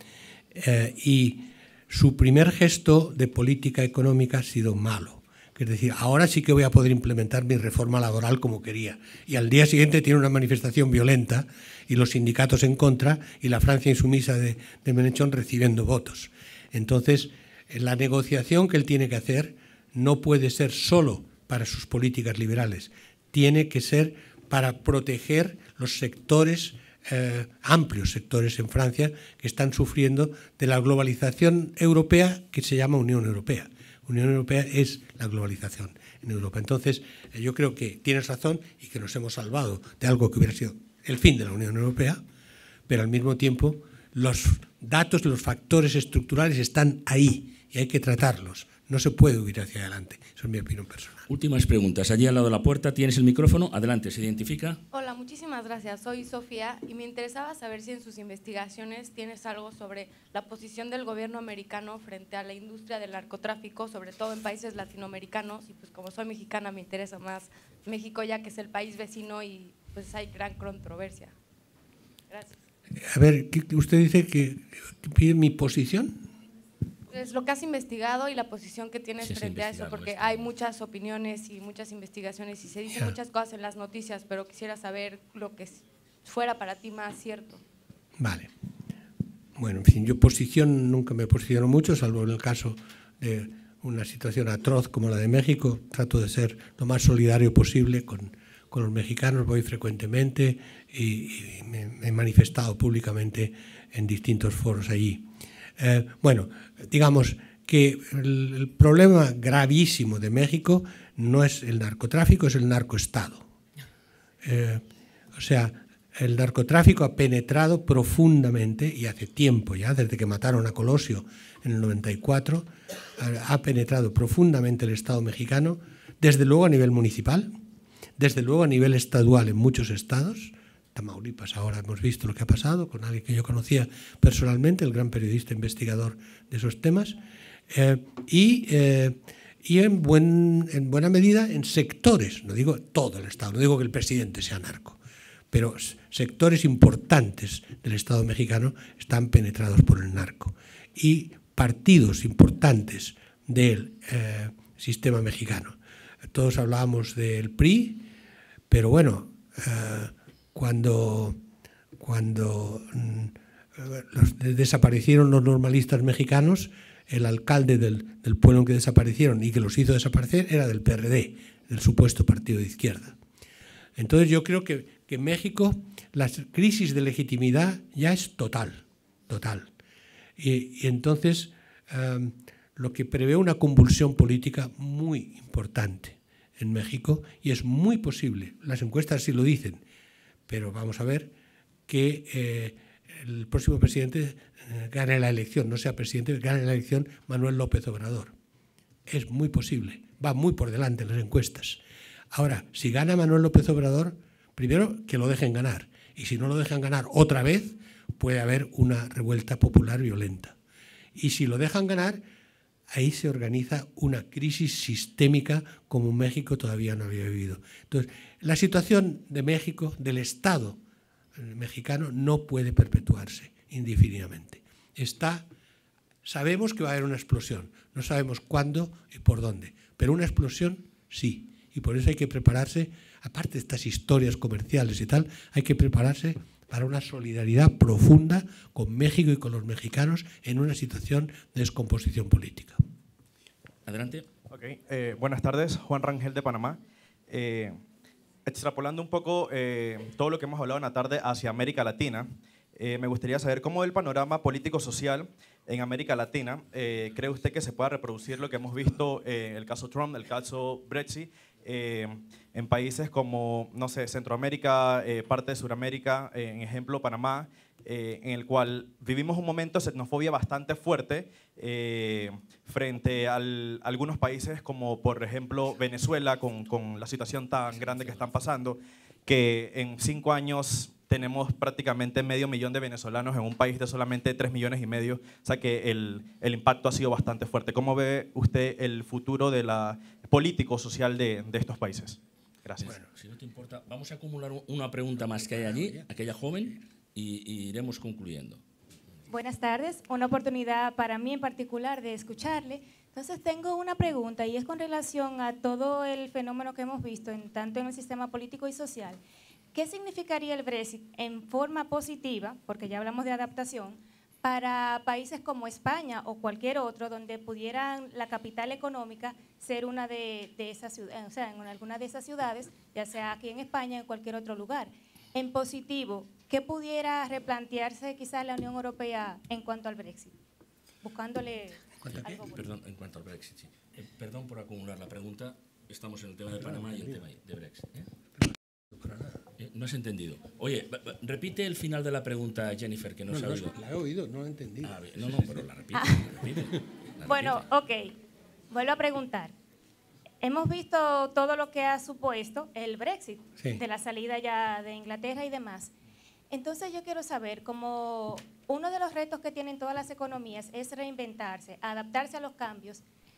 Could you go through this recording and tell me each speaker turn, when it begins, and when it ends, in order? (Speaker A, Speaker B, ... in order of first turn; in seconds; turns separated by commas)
Speaker A: 0.5-42.2, Speaker A: 42.9-51.3, Speaker B: 51.3-54.8, Speaker C: 54.9-71.3, Speaker C: 72.3-72.6, Speaker A: 73.0-76.3, Speaker C: 77.1-87.6, Speaker B: 79.2-80.5, Speaker A: 88.2-88.5, Speaker A: 89.6-105.3, Speaker A: 105.8-113.5, Speaker A: 114.4-127.5, Speaker A: 128.2-145.0, Speaker A: 145.5-155.8, Speaker A: 156.3-158.1, Speaker A: 158.7-161.4, Speaker A: 162.0-173.2, Speaker A: 174.0-179.7, Speaker A: 180.4-189.8, Speaker A: 190.5-191.3, Speaker A: 191.9-198.3, Speaker A: 199.1-201.8, Speaker A: 202.3-210.6, Speaker A: 211.2-212.2, Speaker A: 212.9-220.8, Speaker A: 221.3-225.5, Speaker A: 226.2-242.8, Speaker B: 243.9-244.3, Speaker D: 244.5-247.8, Speaker D: 248.5-292.9, Speaker B: 277.7-278.3, Speaker B: 292.8-298.6, Speaker A: 295.3-296.1, Speaker E: 299.3-309.2, Speaker E: 309.7-330.4, Speaker E: 331.0-332.7, Speaker A: 332.0-332.4, Speaker B: 332.1-338.1, Speaker A: 336.5-337.2, Speaker A: 338.4-339.4, Speaker B: 339.6-343.7, Speaker A: 343.3-345.6, Speaker B: 344.8-347.7, Speaker E: 345.9-346.2, Speaker E: 347.3-348.2, Speaker E: 348.7-349.5, Speaker E: 350.4-355.9, Speaker E: 356.5-363.0